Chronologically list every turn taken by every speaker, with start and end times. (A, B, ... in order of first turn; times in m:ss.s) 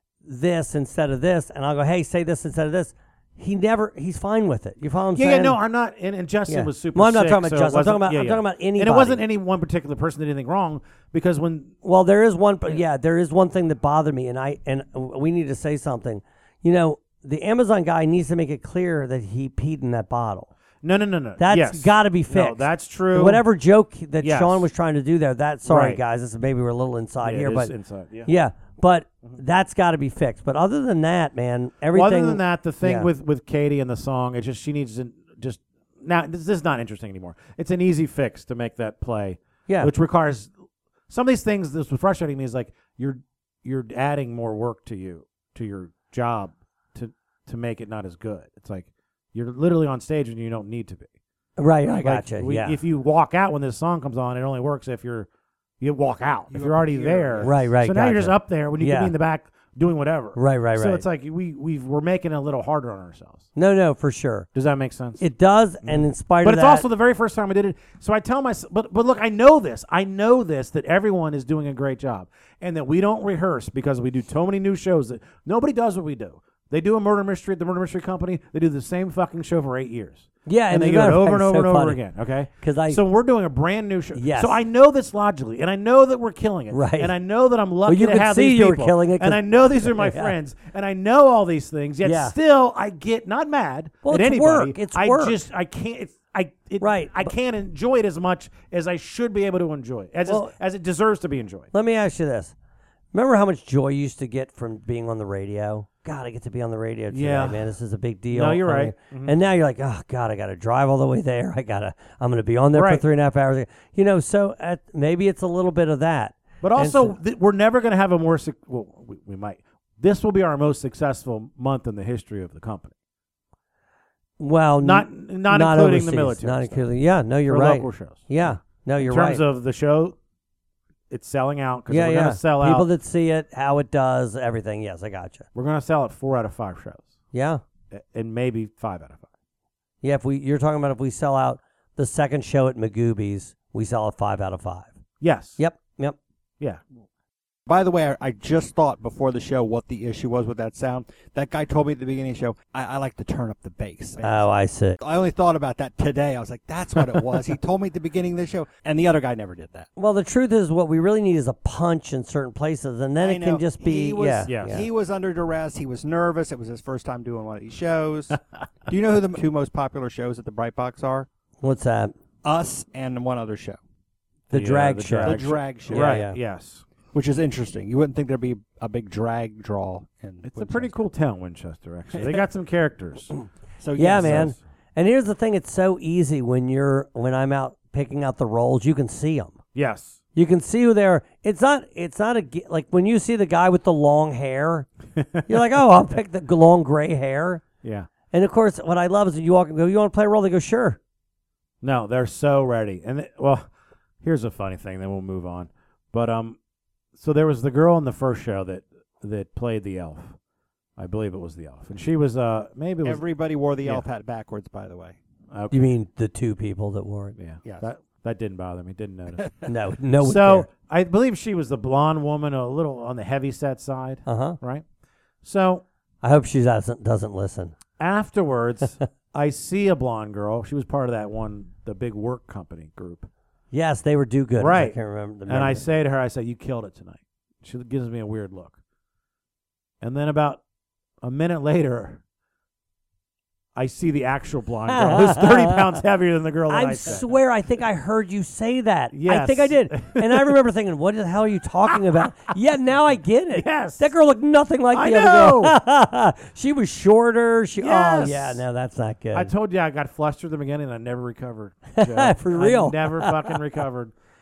0:00.2-0:05.6 A
0:05.1-0:11.7 B
0:06.5-0:09.2 A
0:11.8-0:20.5 A
0:20.8-0:23.4 B
0:21.4-0:27.7 A
0:24.2-0:24.6 B
0:25.6-0:26.0 B
0:27.2-0:28.3 B
0:28.2-0:33.1 A
0:31.9-0:40.5 B
0:39.7-0:39.9 A
0:41.1-0:51.1 B
0:51.6-0:52.8 A
0:51.9-0:55.3 B
0:55.8-1:03.4 B
0:56.5-0:57.7 C
0:57.4-0:59.1 A
1:00.3-1:01.0 A
1:03.6-1:04.5 A
1:04.5-1:05.2 B
1:05.2-1:06.8 A
1:05.8-1:41.7 B
1:20.4-1:22.0 A
1:22.6-1:23.0 A
1:24.1-1:24.6 A
1:26.7-1:27.1 A
1:27.8-1:30.3 A
1:32.0-1:32.3 A
1:34.0-1:35.4 A
1:36.8-1:37.3 A
1:40.3-1:40.5 A
1:41.7-1:42.5 A
1:43.1-1:57.2 A
1:47.1-1:47.6 B
1:48.3-1:49.4 B
1:52.7-1:53.0 B
1:56.6-2:02.9 B
2:04.4-2:09.4 A
2:04.8-2:06.9 B
2:07.4-2:10.2 B
2:11.1-2:12.9 B
2:11.9-2:15.4 A
2:15.5-2:17.1 B
2:17.3-2:17.6 A
2:17.9-2:19.3 B
2:20.0-2:24.9 A
2:25.2-2:25.6 B
2:25.6-2:26.2 A
2:27.7-2:39.9 C
2:34.2-2:35.0 A
2:40.0-2:44.8 A
2:43.2-2:51.3 C
2:44.5-2:44.8 B
2:51.6-2:52.1 A
2:52.4-2:53.8 C
2:54.5-2:56.8 B
2:54.5-2:56.4 A
2:55.2-2:56.2 C
2:57.1-3:00.9 C
3:00.4-3:03.3 B
3:02.1-3:02.4 C
3:03.8-3:04.5 C
3:04.0-3:09.6 A
3:04.1-3:04.6 B
3:09.7-3:10.2 B
3:10.3-3:14.9 A
3:15.5-3:17.6 A
3:17.8-3:18.1 B
3:18.3-3:21.0 A
3:21.8-3:23.7 B
3:24.2-3:26.6 B
3:27.1-3:30.4 B
3:31.0-3:33.2 B
3:33.0-3:35.2 C
3:35.5-3:35.9 B
3:35.7-3:37.3 A
3:37.4-3:39.5 B
3:37.6-3:37.9 C
3:39.6-3:40.7 A
3:40.2-3:44.8 B
3:44.2-3:44.6 A
3:45.4-3:45.8 B
3:46.2-3:47.7 A
3:48.0-3:53.3 B
3:53.7-3:55.8 A
3:54.6-3:58.8 B
4:00.0-4:00.6 B
4:01.2-4:02.2 B
4:03.8-4:07.2 B
4:04.9-4:05.8 A
4:06.7-4:19.5 A
4:09.1-4:10.5 B
4:13.5-4:14.1 B
4:14.9-4:15.8 B
4:17.8-4:18.6 B
4:19.3-4:24.1 B
4:22.0-4:23.3 A